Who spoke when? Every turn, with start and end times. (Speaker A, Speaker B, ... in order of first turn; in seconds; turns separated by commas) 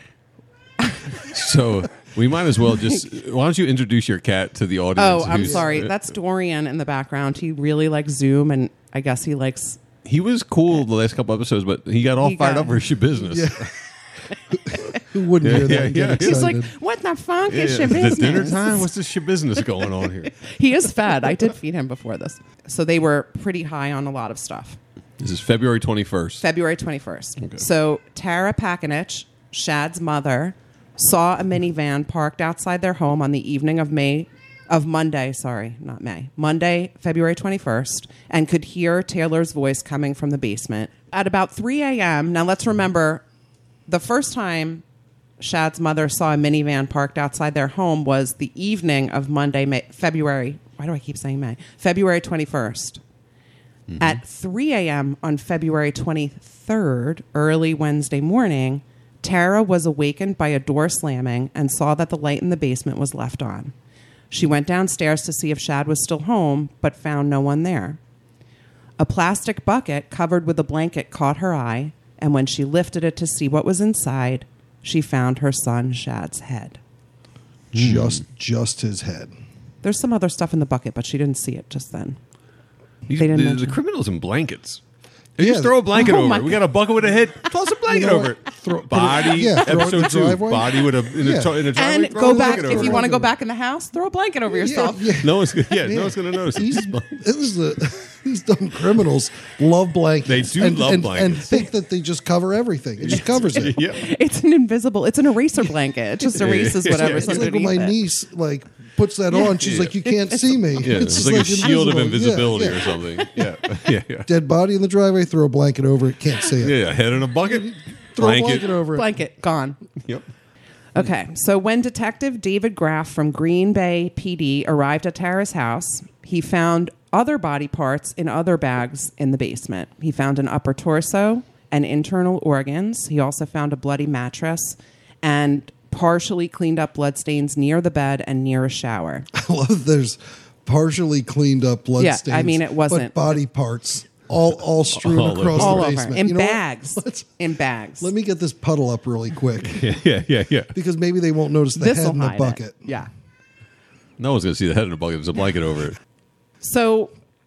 Speaker A: 0.8-1.1, Speaker B: 1.2-5.9, Speaker A: 5.0-9.8, Speaker C: 5.4-5.7, Speaker B: 10.0-13.7, Speaker A: 12.2-12.8, Speaker C: 13.3-13.7, Speaker C: 14.5-16.7, Speaker B: 15.4-16.5, Speaker A: 16.1-18.9, Speaker B: 17.5-20.3, Speaker A: 19.8-24.8, Speaker B: 25.2-26.4, Speaker A: 26.4-43.2, Speaker A: 43.9-44.8, Speaker A: 45.4-53.0, Speaker B: 53.9-54.2, Speaker A: 54.0-63.7, Speaker A: 64.3-68.0, Speaker A: 69.0-76.8, Speaker C: 77.7-79.3, Speaker B: 77.8-78.2, Speaker A: 79.8-82.2, Speaker B: 83.1-84.8, Speaker A: 83.2-83.8, Speaker B: 85.4-93.1, Speaker C: 85.4-85.8, Speaker A: 85.9-86.6, Speaker C: 87.9-91.6, Speaker A: 91.7-95.2, Speaker C: 92.2-93.3, Speaker C: 94.6-103.8, Speaker B: 95.2-97.2, Speaker B: 100.3-101.7, Speaker B: 103.0-104.0, Speaker A: 103.1-108.0, Speaker B: 106.3-107.5, Speaker C: 106.9-113.5, Speaker A: 109.3-110.5, Speaker B: 109.6-109.9, Speaker B: 110.8-114.3, Speaker C: 114.3-116.8, Speaker B: 116.6-118.8, Speaker C: 117.4-119.1, Speaker A: 118.9-119.8, Speaker B: 120.0-120.3, Speaker A: 121.0-139.3, Speaker C: 139.3-147.4, Speaker A: 142.0-143.2, Speaker B: 144.9-146.0, Speaker A: 145.6-148.1, Speaker C: 148.0-149.9, Speaker B: 149.6-150.7, Speaker C: 150.7-152.9, Speaker A: 151.8-153.1, Speaker B: 154.2-156.0, Speaker A: 156.6-157.1